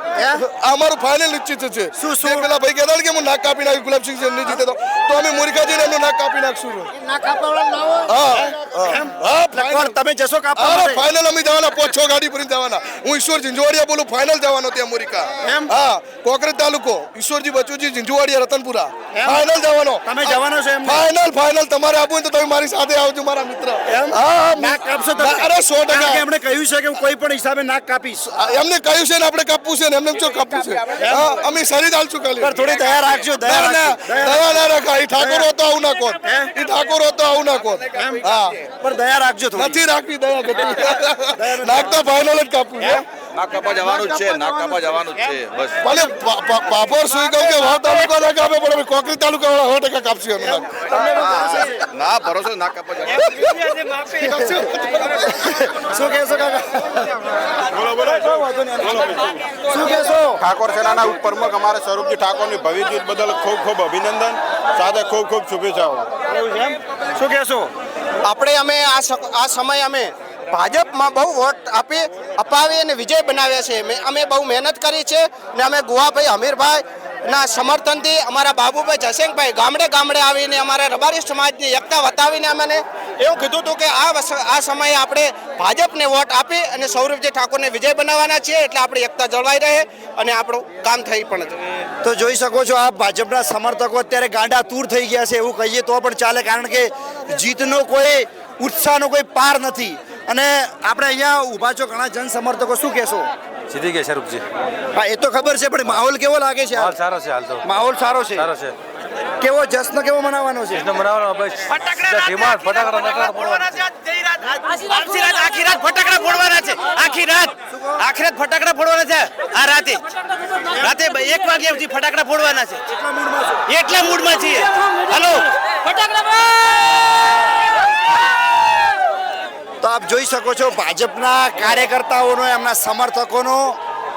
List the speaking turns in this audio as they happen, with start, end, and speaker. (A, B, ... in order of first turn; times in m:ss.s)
0:00.2-0:00.4 A
0:00.4-0:06.9 B
0:02.0-0:02.5 A
0:07.0-0:11.0 A
0:08.1-0:09.9 B
0:10.6-0:26.2 B
0:15.4-0:15.7 A
0:19.1-0:19.4 A
0:20.0-0:21.0 A
0:23.9-0:28.4 A
0:28.3-0:32.6 B
0:31.0-0:31.3 A
0:32.4-0:34.6 A
0:33.4-0:38.6 B
0:35.2-0:35.5 A
0:36.2-0:36.5 A
0:37.9-0:38.2 A
0:38.8-0:39.8 A
0:39.6-0:43.0 B
0:41.4-0:42.1 A
0:43.4-0:45.7 C
0:43.7-0:45.4 A
0:45.8-0:51.4 B
0:50.4-0:51.9 A
0:52.0-0:53.2 C
0:53.4-0:54.2 D
0:54.2-0:57.3 A
0:57.7-0:59.3 E
0:58.0-1:00.4 A
1:00.4-1:06.1 E
1:06.3-1:07.7 A
1:08.2-1:31.9 F
1:32.0-1:43.3 A
1:43.7-1:44.4 G
1:44.9-1:47.0 A
1:47.1-1:47.5 G
1:47.6-1:48.6 A
1:49.4-1:51.0 A
1:51.1-1:51.6 G
1:51.6-2:00.0 D
1:52.2-1:53.2 G
1:57.7-1:58.1 A
2:00.7-2:02.8 D
2:02.9-2:03.7 A
2:03.7-2:05.5 D
2:09.8-2:13.8 A